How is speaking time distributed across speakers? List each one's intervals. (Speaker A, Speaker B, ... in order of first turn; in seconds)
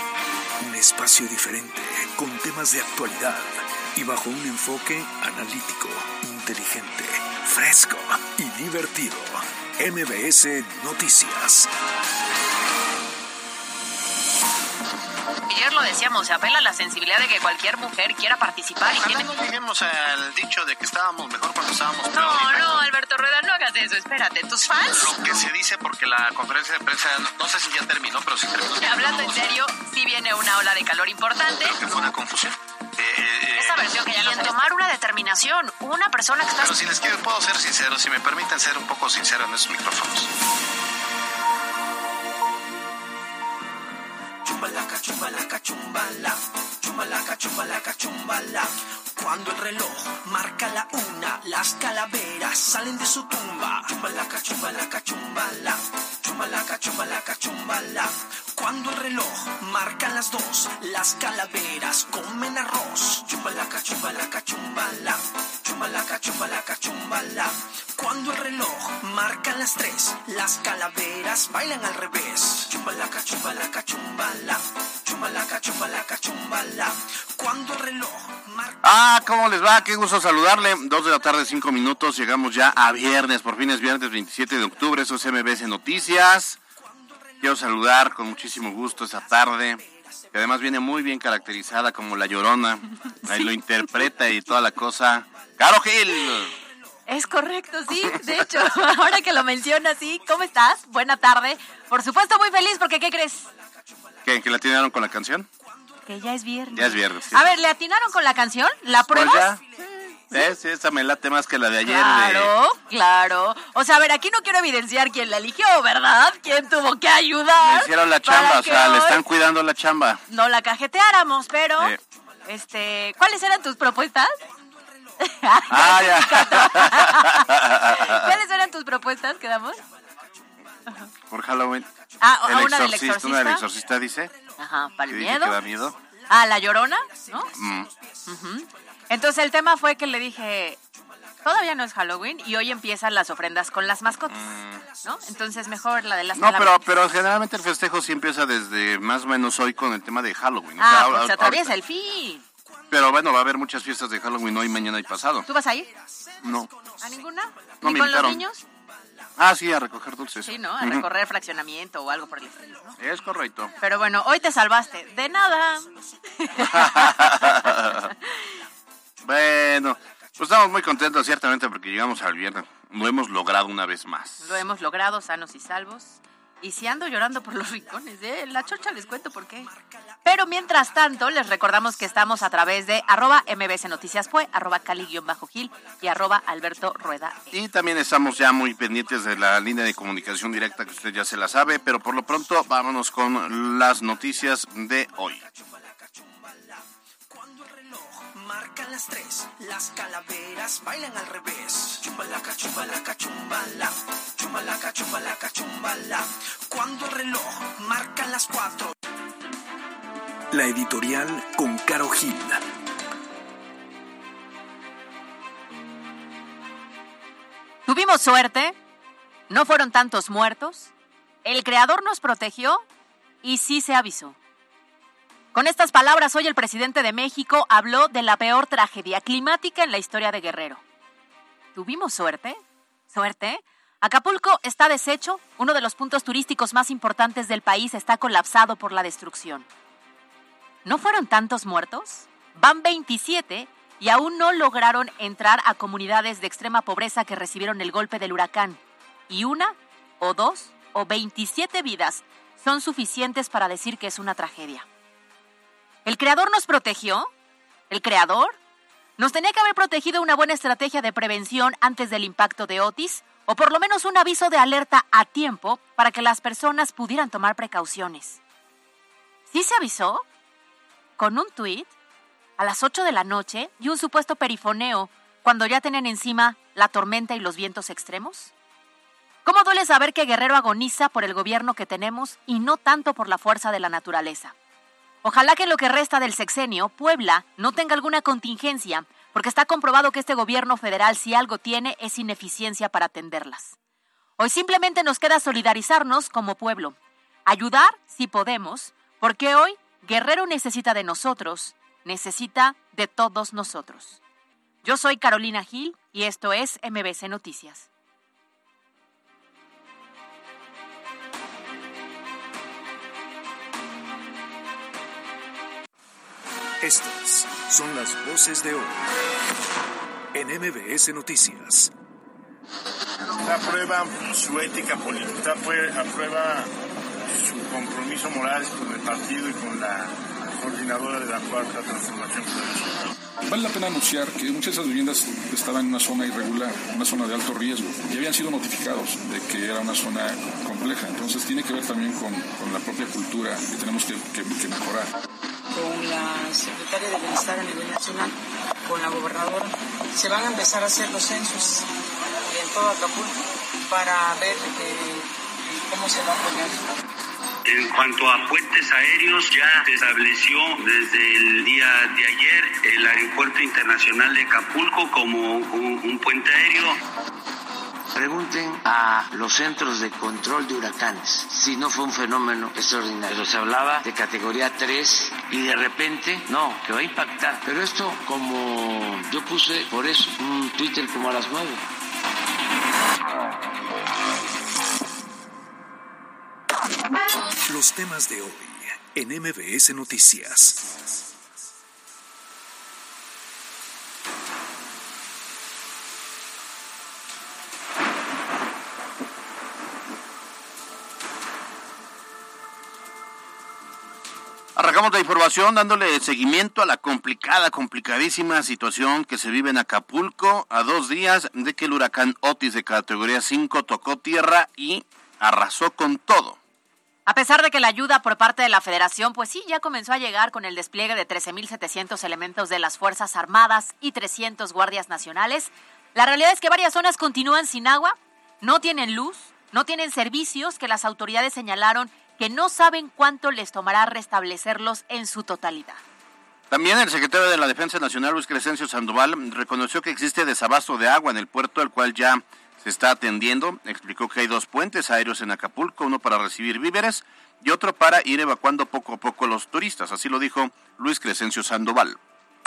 Speaker A: 0.6-11.7, 210.5-212.6, 316.8-319.0, 320.3-321.9, 387.6-391.0
Speaker B: 15.5-19.3, 22.1-25.4, 28.7-31.9, 33.5-36.8, 97.1-103.5, 106.0-109.5, 111.8-119.2, 120.3-121.9, 122.4-124.4, 125.2-129.8, 132.2-133.6, 134.6-135.6, 136.3-137.5, 138.3-140.8, 141.4-144.4, 145.0-146.8, 150.8-152.4, 155.4-155.9, 157.0-158.6, 160.4-162.9, 163.8-168.6, 174.4-179.7, 180.2-187.6, 217.9-218.8, 219.5-220.9, 221.4-222.8, 223.4-224.4, 225.5-230.8, 231.7-232.6, 233.1-239.7, 240.8-254.8, 256.0-257.3, 257.9-258.6, 259.2-268.4, 269.5-270.2, 271.2-271.9, 272.6-278.5, 279.4-284.5, 285.2-293.7, 294.4-304.2, 304.8-307.9, 417.3-436.0
Speaker C: 18.8-22.9, 24.8-29.6, 31.6-34.6, 36.6-40.3
Speaker D: 44.4-78.8, 86.8-87.6, 88.5-90.3, 105.8-106.0, 124.5-125.1, 135.6-136.2, 137.0-138.3, 144.9-145.8, 156.2-157.7, 162.5-162.9, 165.1-167.1, 177.8-183.4, 185.8-187.4, 190.7-191.0, 195.4-208.9
Speaker E: 78.8-86.6, 87.4-96.5, 104.2-105.5, 106.7-107.5, 109.1-109.6, 110.3-112.5, 117.6-120.2, 125.7-128.3, 131.3-131.9, 132.4-134.3, 135.1-135.9, 137.5-137.9, 144.3-144.8, 146.3-151.7, 152.9-155.5, 156.4-156.7, 157.8-158.4, 159.4-161.0, 163.0-163.7, 166.6-168.1, 169.2-174.6, 187.5-195.4, 404.8-416.6, 436.7-452.2
Speaker F: 323.4-326.7, 327.3-333.1
Speaker G: 333.4-345.1
Speaker H: 345.7-348.3, 348.8-356.9
Speaker I: 357.6-367.0
Speaker J: 368.1-381.8